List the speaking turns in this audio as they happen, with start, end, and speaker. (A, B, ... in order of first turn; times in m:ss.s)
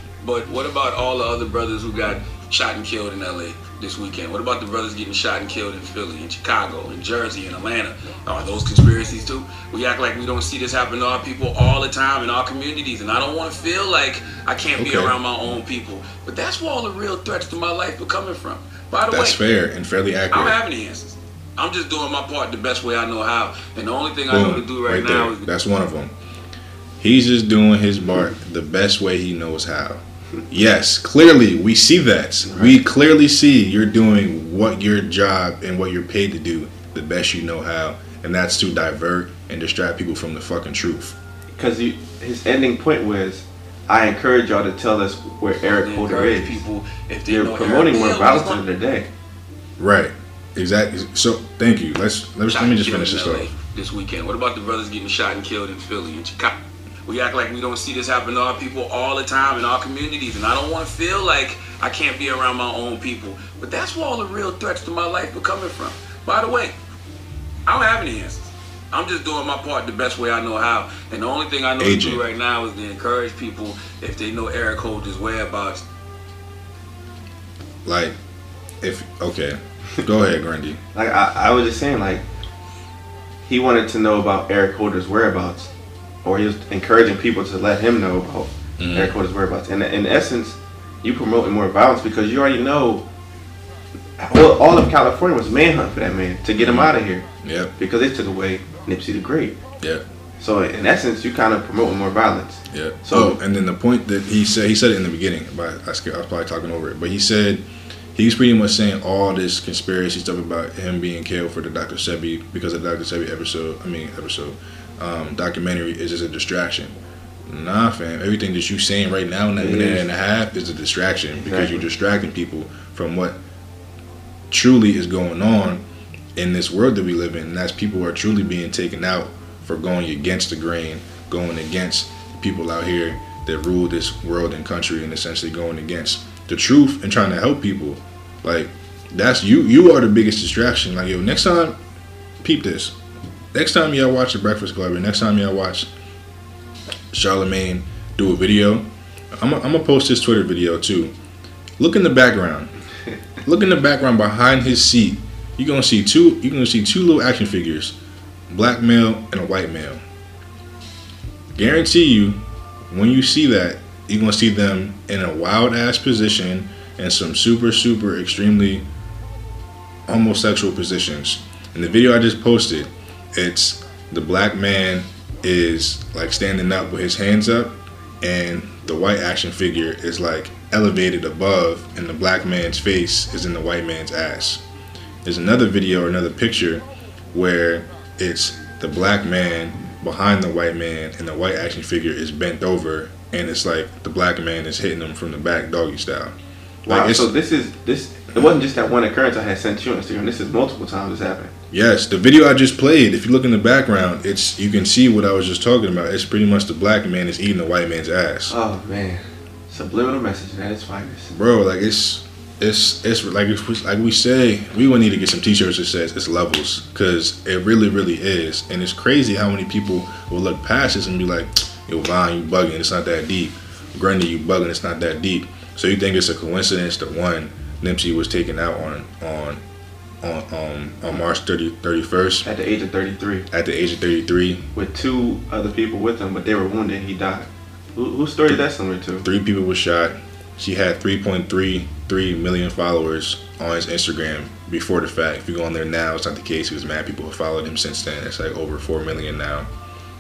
0:00.2-0:19.4 A
0:14.8-0:15.1 B
0:19.1-0:20.6 B
0:20.3-0:25.5 A
0:24.3-0:26.2 B
0:27.0-0:41.2 B
0:32.4-0:32.8 C
0:41.6-0:46.6 C
0:45.6-0:48.6 A
0:47.3-0:49.1 C
0:49.8-0:53.5 B
0:52.5-0:56.5 A
0:57.1-1:06.8 A
1:07.7-1:15.8 A
1:11.8-1:12.2 B
1:17.8-1:18.2 B
1:18.8-1:20.8 B
1:20.9-1:22.2 C
1:23.5-1:25.7 C
1:26.2-1:33.0 C
1:28.8-1:29.2 B
1:34.2-1:39.6 C
1:36.6-1:37.7 B
1:40.4-1:43.4 C
1:42.7-2:03.4 B
1:59.6-2:00.1 C
2:01.4-2:01.9 C
2:04.5-2:05.8 B
2:06.4-2:21.8 B
2:22.4-2:23.0 B
2:23.5-2:25.9 B
2:27.1-2:31.1 B
2:31.8-2:32.7 B
2:33.4-2:38.0 B
2:38.5-2:40.0 B
2:41.6-2:48.9 B
2:50.1-3:04.6 B
3:05.2-3:16.4 B
3:16.9-3:17.3 B
3:16.9-3:21.5 C
3:21.7-3:28.6 B
3:28.5-3:31.4 C
3:31.3-3:49.6 B
3:50.2-3:52.5 B
3:52.4-3:53.5 C
3:53.5-3:54.7 B
3:54.7-3:59.3 C
3:59.2-4:09.7 B